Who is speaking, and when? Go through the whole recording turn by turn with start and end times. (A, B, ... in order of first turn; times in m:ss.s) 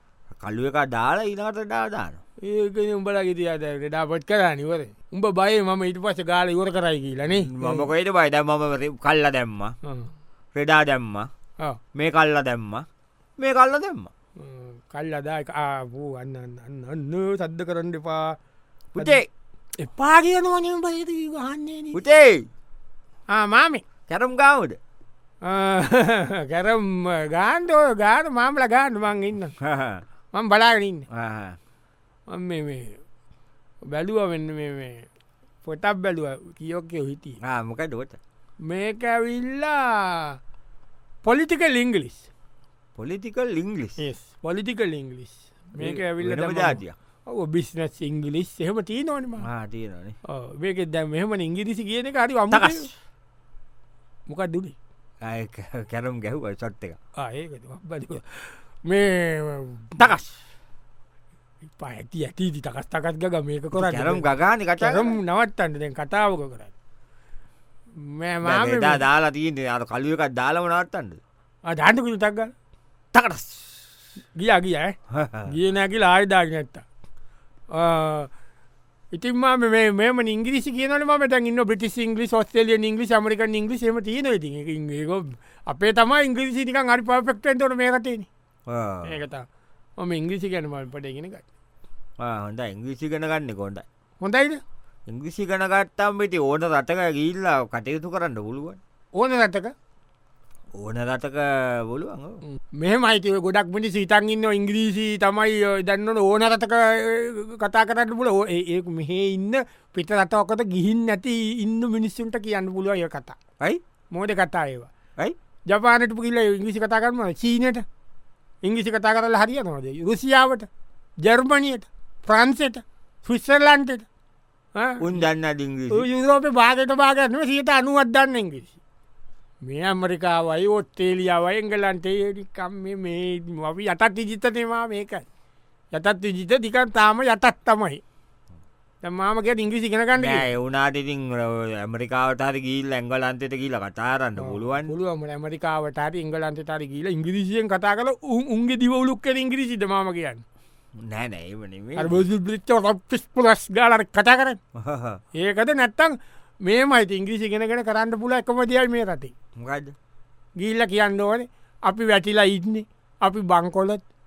0:00.3-0:02.2 A
0:02.4-0:07.9 B
0:07.3-0:09.8 A
0:09.8-0:10.1 B
0:10.5-0:11.3 A
0:11.9-0:12.8 A
0:13.4-0:14.1 A
0:14.4-0:18.4 B
0:18.9-0:19.3 A
0:19.8-0:22.0 B
0:21.9-0:22.4 A
0:23.3-0:23.8 B
0:24.1-0:24.8 A
0:25.4-0:29.5 B
0:29.6-0:30.0 A
0:30.3-0:31.0 B
0:31.1-0:31.6 A
0:32.3-0:33.0 B
0:33.9-0:35.0 B
0:35.6-0:37.4 B
0:37.4-0:38.2 A
0:38.6-0:40.4 B
0:41.2-0:42.3 B
0:43.0-0:44.0 A
0:44.0-0:49.5 B
0:45.8-0:47.0 A
0:49.4-0:50.2 A
0:50.2-0:52.9 B
0:52.5-0:52.9 A
0:54.3-0:54.7 B
0:55.2-0:57.0 A
0:57.2-1:00.3 B
1:01.8-1:04.2 B
1:03.7-1:05.2 A
1:04.8-1:06.7 B
1:08.0-1:09.0 B
1:08.4-1:11.2 A
1:11.7-1:12.5 B
1:13.1-1:13.4 A
1:14.4-1:16.8 B
1:15.1-1:15.5 A
1:17.7-1:18.3 B
1:19.1-1:28.3 B
1:28.7-1:29.2 A
1:29.0-1:29.4 B
1:30.0-1:31.4 B
1:32.2-1:33.8 A
1:34.2-1:34.6 B
1:35.1-1:38.8 A
1:39.1-1:39.7 B
1:40.8-1:42.4 A
1:42.5-1:53.4 B
1:54.1-1:54.9 B
1:55.7-1:57.8 B
1:58.6-2:00.7 B
2:01.2-2:04.1 B
2:04.7-2:05.1 B
2:05.0-2:06.0 A
2:05.9-2:08.8 B
2:09.6-2:15.2 B
2:15.9-2:18.0 B
2:19.0-2:20.4 B
2:20.1-2:24.9 A
2:24.4-2:30.4 B
2:31.0-2:32.2 A
2:32.0-2:34.6 B
2:34.7-2:35.2 A
2:35.3-2:39.3 B
2:39.6-2:40.0 A
2:40.6-2:44.0 B